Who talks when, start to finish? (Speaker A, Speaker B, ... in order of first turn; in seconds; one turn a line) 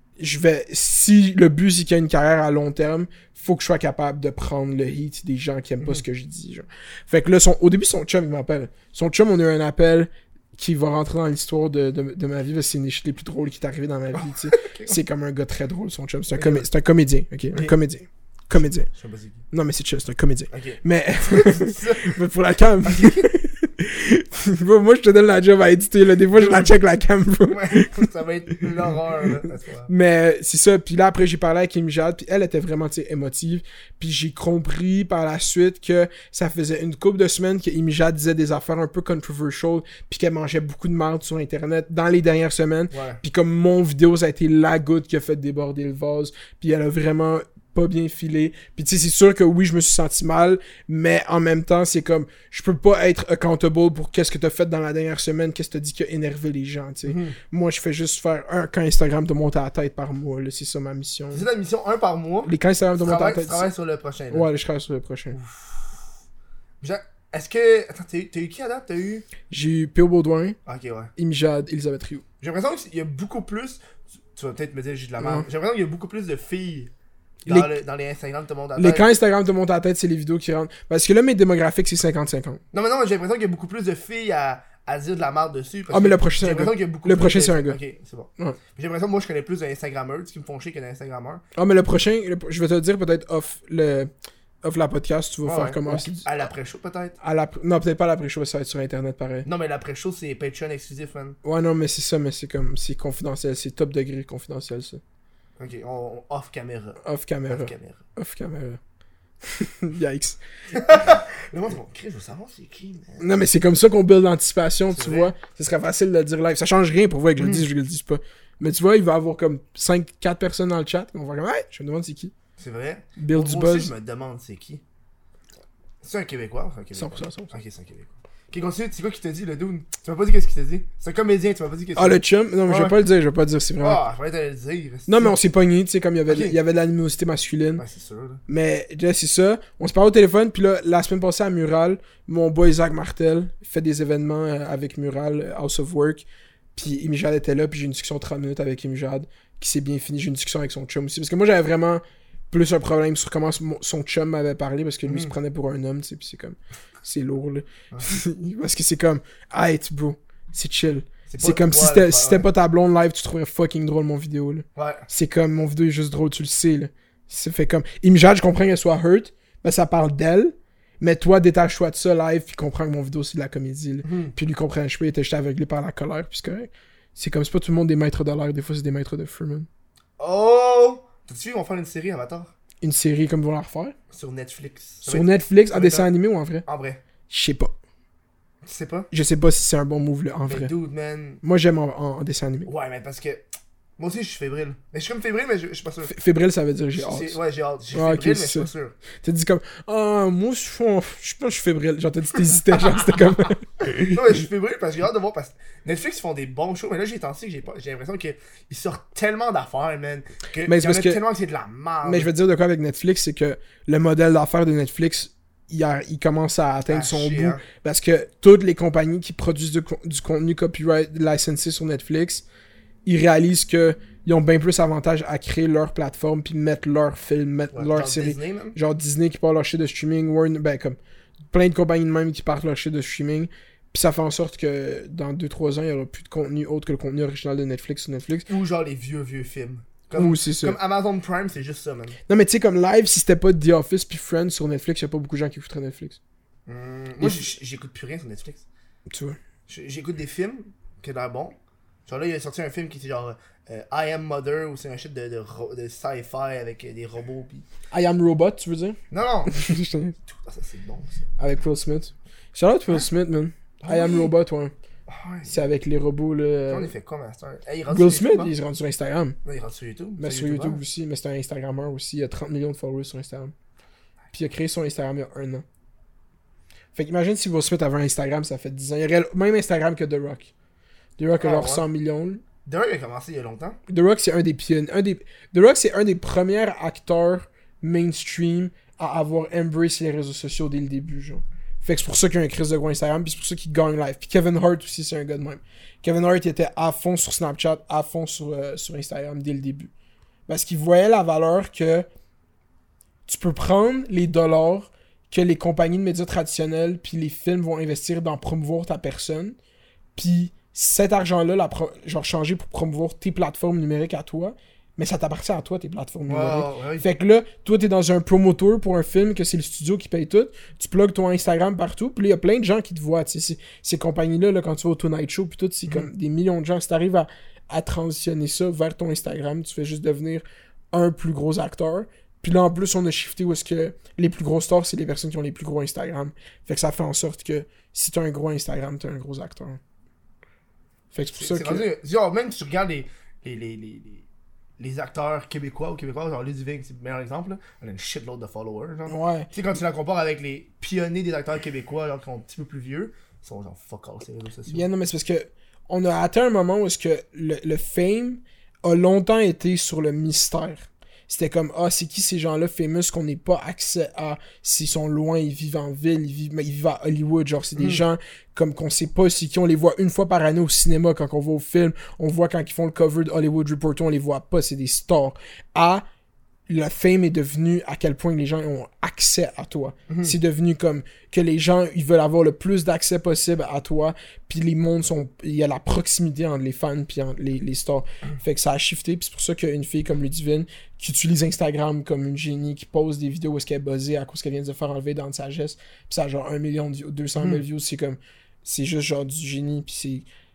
Speaker A: 0.2-18.9
Speaker B: 14.4-15.0
Speaker B: 16.3-16.7
Speaker B: 18.9-19.4
Speaker A: 19.5-28.1
Speaker B: 20.5-22.2
Speaker B: 22.8-23.3
Speaker B: 26.3-26.7
Speaker B: 27.5-29.9
Speaker A: 29.9-61.5
Speaker B: 42.9-43.2
Speaker B: 57.0-57.4
Speaker B: 61.3-64.5
Speaker A: 62.5-63.7
Speaker A: 64.3-65.4
Speaker B: 65.3-66.0
Speaker B: 66.8-69.3
Speaker A: 69.5-70.6
Speaker B: 70.7-71.1
Speaker A: 71.2-72.2
Speaker B: 72.4-73.8
Speaker B: 74.3-76.9
Speaker A: 75.2-75.5
Speaker A: 77.5-77.7
Speaker B: 77.5-79.1
Speaker A: 78.8-82.6
Speaker B: 82.7-91.4
Speaker A: 85.9-87.8
Speaker A: 91.6-94.1
Speaker A: 94.6-96.3
Speaker B: 95.4-97.2
Speaker A: 97.2-99.5
Speaker B: 99.5-101.4
Speaker A: 101.4-105.0
Speaker B: 105.6-108.0
Speaker A: 107.0-108.8
Speaker A: 109.4-110.4
Speaker B: 110.7-113.3
Speaker A: 113.2-122.3
Speaker B: 114.9-115.3
Speaker B: 117.4-117.7
Speaker B: 122.6-124.8
Speaker A: 123.2-123.9
Speaker B: 126.0-133.0
Speaker A: 127.0-127.6
Speaker A: 132.0-134.0
Speaker B: 133.8-135.4
Speaker A: 135.1-137.8
Speaker B: 136.3-136.6
Speaker B: 137.8-138.4
Speaker A: 138.5-179.7
Speaker B: 155.1-155.3
Speaker B: 157.9-158.2
Speaker B: 161.3-162.5
Speaker B: 164.8-165.1
Speaker B: 174.0-174.3
Speaker B: 180.2-182.5
Speaker A: 182.8-183.9
Speaker B: 184.1-186.1
Speaker A: 185.1-186.7
Speaker B: 186.7-187.0
Speaker A: 187.3-187.7
Speaker B: 188.6-189.1
Speaker A: 189.1-190.7
Speaker B: 190.5-191.4
Speaker A: 191.4-192.7
Speaker B: 192.7-193.5
Speaker B: 194.0-196.1
Speaker A: 196.1-197.4
Speaker B: 197.0-199.0
Speaker A: 197.9-204.2
Speaker B: 203.8-212.3
Speaker A: 210.7-211.2
Speaker A: 212.0-222.4
Speaker B: 216.9-217.6
Speaker A: 223.1-231.0
Speaker B: 227.7-228.8
Speaker A: 231.5-238.5
Speaker B: 238.5-242.2
Speaker A: 240.2-240.8
Speaker A: 242.3-246.2
Speaker B: 246.7-248.7
Speaker A: 249.1-249.4
Speaker B: 249.7-257.7
Speaker A: 257.9-260.2
Speaker B: 259.1-259.6
Speaker B: 260.3-261.3
Speaker A: 261.4-264.7
Speaker B: 263.8-264.3
Speaker B: 265.1-265.6
Speaker A: 265.5-266.9
Speaker B: 266.7-268.6
Speaker A: 267.9-269.4
Speaker B: 269.4-270.8
Speaker A: 270.2-273.5
Speaker A: 274.3-275.6
Speaker A: 276.9-280.5
Speaker A: 281.2-282.4
Speaker B: 281.4-281.9
Speaker B: 282.6-283.8
Speaker A: 283.9-299.9
Speaker A: 300.5-302.1
Speaker A: 303.3-309.6
Speaker A: 310.2-339.8
Speaker B: 316.3-317.1
Speaker A: 341.1-341.9
Speaker B: 341.4-344.2
Speaker B: 344.8-354.9
Speaker A: 349.1-349.5
Speaker A: 354.7-376.0
Speaker B: 367.8-368.0
Speaker A: 376.7-400.3
Speaker B: 380.1-380.3
Speaker B: 397.4-397.6